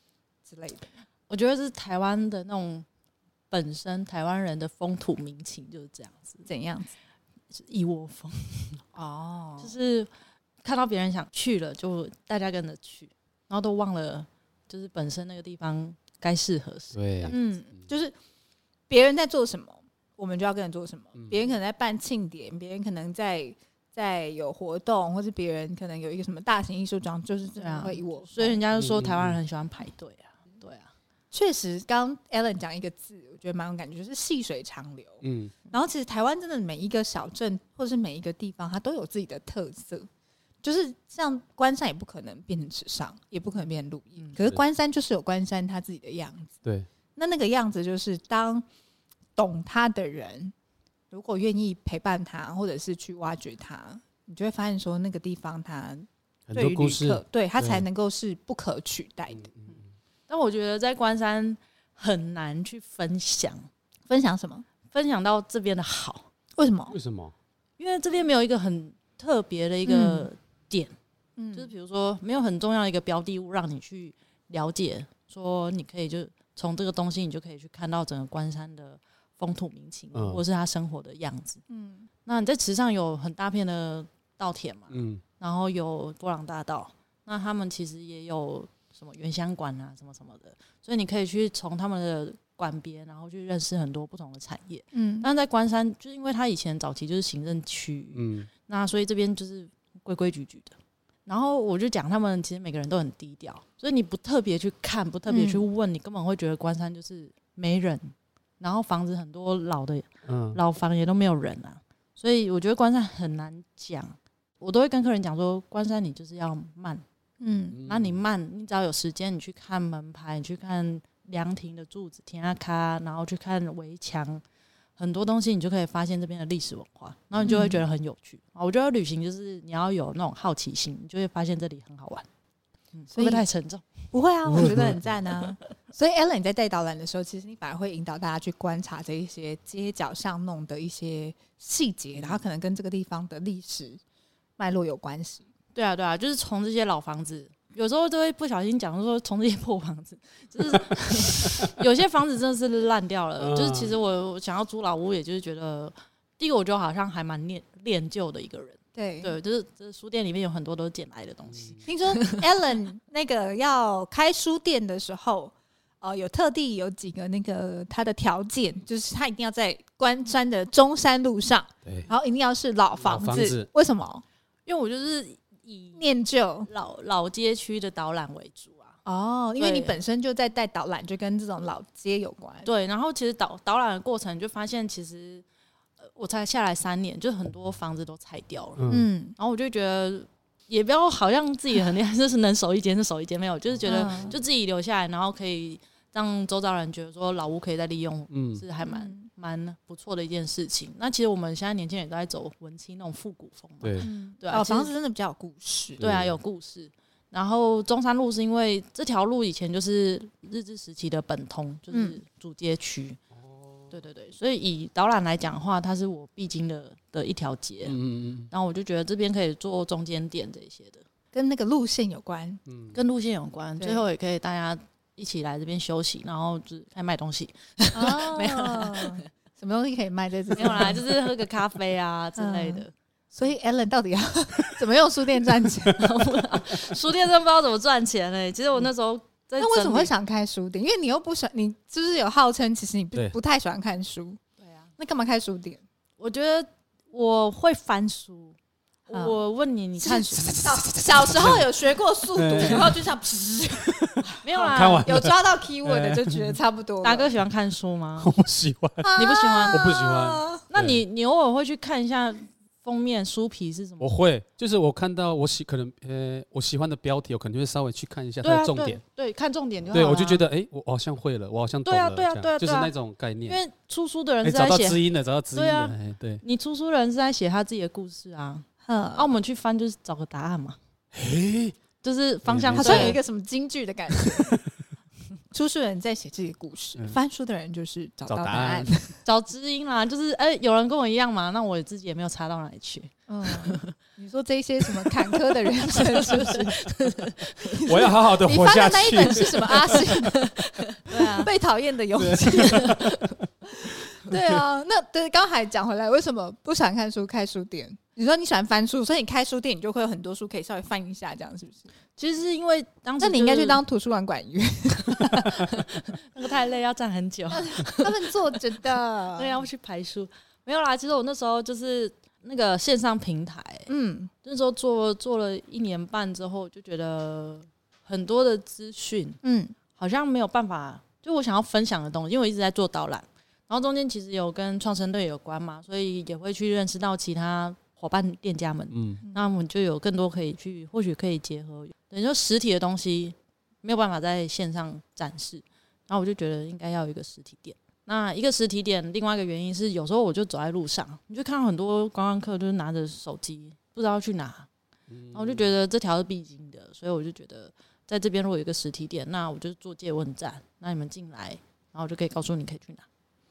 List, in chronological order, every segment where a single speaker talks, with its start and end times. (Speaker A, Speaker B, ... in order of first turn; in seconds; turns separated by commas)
Speaker A: 0.4-0.8, Speaker B: 1.3-2.9, Speaker B: 3.5-6.4, Speaker A: 6.5-6.9, Speaker B: 7.5-8.8, Speaker A: 8.9-9.7, Speaker B: 9.6-10.1, Speaker B: 10.6-17.4, Speaker C: 16.9-17.3, Speaker A: 17.3-18.1, Speaker A: 18.9-28.6, Speaker B: 27.6-30.9, Speaker C: 28.7-29.4, Speaker A: 31.3-40.1, Speaker C: 35.2-35.5, Speaker A: 40.6-46.5, Speaker A: 47.1-48.6, Speaker A: 49.4-50.5, Speaker A: 51.1-59.5, Speaker C: 56.5-57.8, Speaker C: 59.3-59.8, Speaker B: 60.3-63.6, Speaker A: 64.1-64.7, Speaker B: 64.9-66.3, Speaker A: 66.6-67.0, Speaker C: 66.9-67.3, Speaker B: 67.8-70.9, Speaker A: 69.8-70.3, Speaker A: 71.4-71.7, Speaker B: 71.5-81.6, Speaker C: 80.1-80.4, Speaker A: 81.7-82.1, Speaker B: 82.2-100.7, Speaker C: 84.9-85.2, Speaker A: 94.9-95.3, Speaker C: 98.1-98.5, Speaker B: 101.2-117.0, Speaker A: 105.3-105.6, Speaker C: 110.2-110.6, Speaker A: 117.4-117.8, Speaker C: 117.7-118.2, Speaker B: 117.8-124.4, Speaker B: 125.0-132.2, Speaker A: 127.4-127.8, Speaker B: 132.9-133.8, Speaker A: 133.1-133.4, Speaker A: 134.1-144.0, Speaker C: 134.5-135.0, Speaker A: 144.6-145.4, Speaker B: 145.7-162.4, Speaker C: 153.4-153.9, Speaker A: 158.9-159.3, Speaker C: 161.5-161.9, Speaker A: 161.8-174.2, Speaker C: 171.8-172.1, Speaker C: 173.0-173.7, Speaker B: 174.7-176.0, Speaker A: 175.9-176.7, Speaker B: 176.7-178.9, Speaker A: 179.0-182.7, Speaker B: 179.6-180.0, Speaker B: 182.6-185.4, Speaker B: 186.0-188.8, Speaker C: 188.8-189.1, Speaker A: 188.9-189.3, Speaker B: 189.4-204.9, Speaker A: 193.8-194.3, Speaker C: 193.9-194.3, Speaker C: 198.3-198.6, Speaker A: 198.8-199.3, Speaker A: 204.0-206.0, Speaker C: 206.0-206.3, Speaker B: 206.0-213.2, Speaker A: 211.9-212.2, Speaker C: 213.3-213.9, Speaker B: 213.9-218.0, Speaker C: 217.8-218.5, Speaker B: 218.5-221.0, Speaker A: 221.3-222.6, Speaker C: 222.7-223.0, Speaker B: 222.9-229.2, Speaker A: 227.9-231.1, Speaker B: 230.6-232.9, Speaker A: 232.4-236.0, Speaker B: 235.9-240.1, Speaker A: 239.6-244.4, Speaker B: 244.6-244.9, Speaker A: 245.0-245.8, Speaker B: 246.2-248.6, Speaker B: 249.1-250.8, Speaker A: 249.1-249.4, Speaker A: 250.0-257.3, Speaker C: 251.3-251.6, Speaker C: 252.3-253.0, Speaker C: 254.0-256.6, Speaker B: 254.4-255.2, Speaker B: 257.0-258.3, Speaker C: 258.2-259.1, Speaker A: 259.0-260.6, Speaker B: 259.2-259.8, Speaker C: 259.7-261.0, Speaker B: 260.7-264.1, Speaker C: 264.0-269.0, Speaker B: 268.4-270.4, Speaker C: 269.9-273.6, Speaker B: 271.8-272.9, Speaker B: 273.4-275.0, Speaker C: 274.4-276.4, Speaker B: 275.5-280.8, Speaker A: 278.8-279.3, Speaker C: 281.1-281.8, Speaker B: 282.0-283.2, Speaker C: 282.4-283.2, Speaker A: 282.7-284.5, Speaker C: 284.2-284.6, Speaker A: 285.5-289.1, Speaker C: 288.3-288.9, Speaker B: 289.2-293.9, Speaker A: 293.3-296.8, Speaker B: 295.5-297.8, Speaker A: 297.6-300.5, Speaker C: 297.9-300.1, Speaker B: 300.3-301.5, Speaker A: 301.0-303.0, Speaker C: 302.2-303.3, Speaker B: 302.6-303.3, Speaker A: 303.7-311.9, Speaker B: 312.2-313.8, Speaker A: 313.2-315.7, Speaker B: 315.1-318.1, Speaker A: 317.5-319.6, Speaker B: 319.3-323.9, Speaker A: 323.9-324.3, Speaker B: 324.4-329.4, Speaker A: 329.4-329.7, Speaker B: 329.9-354.7, Speaker C: 338.9-339.2, Speaker C: 355.1-355.7, Speaker B: 355.3-363.0